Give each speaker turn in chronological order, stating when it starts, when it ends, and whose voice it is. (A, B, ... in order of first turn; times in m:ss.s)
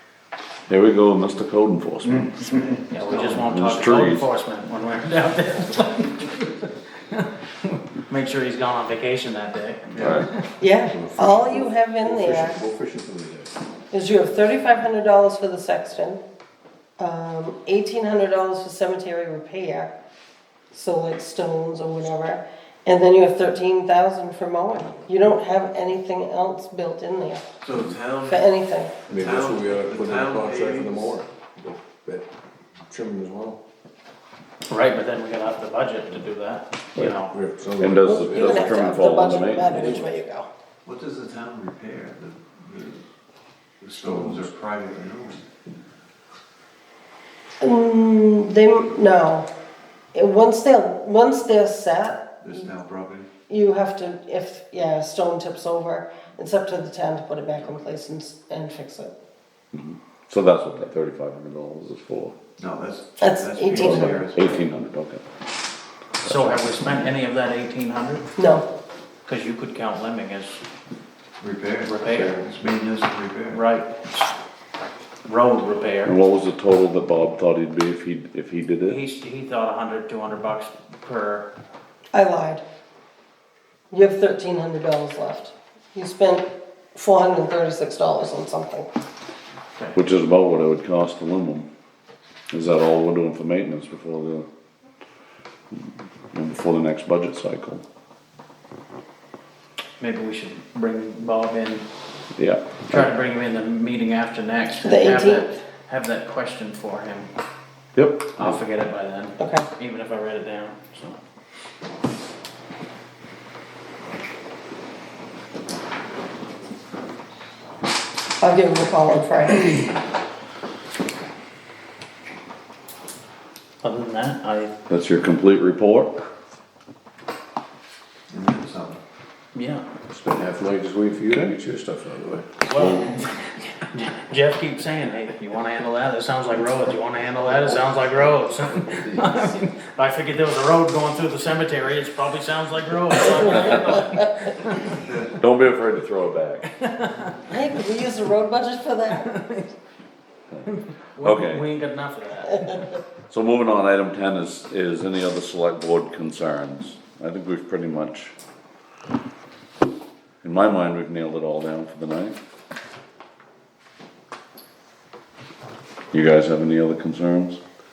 0:00.7-0:02.6 A
0:02.0-0:10.4 B
0:03.0-0:03.3 C
0:03.3-0:04.3 A
0:09.9-0:10.2 C
0:10.0-0:10.3 A
0:10.6-0:12.6 D
0:10.8-0:13.5 E
0:13.9-0:16.2 D
0:17.0-0:19.9 D
0:20.7-0:27.5 D
0:27.6-0:28.5 C
0:28.2-0:29.0 D
0:29.1-0:32.3 E
0:29.1-0:31.2 C
0:32.9-0:33.6 E
0:34.7-0:37.4 B
0:37.2-0:38.6 E
0:37.8-0:40.0 A
0:38.0-0:40.5 D
0:39.7-0:40.0 E
0:40.8-0:43.0 C
0:43.8-0:45.4 C
0:47.6-0:49.5 D
0:50.1-0:52.6 D
0:52.4-0:53.3 C
0:53.5-0:59.1 D
0:59.7-1:02.3 A
1:02.6-1:04.6 C
1:03.2-1:04.2 D
1:03.7-1:05.2 A
1:06.2-1:08.3 B
1:06.2-1:06.8 A
1:08.4-1:08.6 D
1:09.2-1:10.6 B
1:11.4-1:13.6 C
1:11.8-1:12.4 B
1:13.5-1:14.1 B
1:15.2-1:16.2 B
1:16.0-1:19.0 A
1:18.8-1:21.5 B
1:22.1-1:22.6 D
1:23.9-1:28.9 D
1:29.9-1:31.7 A
1:32.5-1:34.5 A
1:35.7-1:37.8 A
1:40.0-1:41.8 B
1:42.3-1:43.0 A
1:42.9-1:47.3 B
1:44.8-1:45.6 D
1:48.0-1:48.6 A
1:48.4-1:51.2 B
1:49.4-1:49.6 D
1:58.4-2:00.0 D
2:03.8-2:04.7 B
2:04.9-2:06.2 A
2:08.3-2:09.0 C
2:09.5-2:09.8 B
2:10.1-2:13.0 E
2:12.6-2:25.0 B
2:19.0-2:19.3 E
2:25.0-2:25.3 C
2:25.4-2:26.7 A
2:26.8-2:27.4 B
2:27.5-2:29.3 D
2:29.1-2:29.7 B
2:30.6-2:32.9 B
2:31.2-2:31.6 A
2:33.3-2:38.3 A
2:40.4-2:42.4 A
2:46.1-2:47.6 A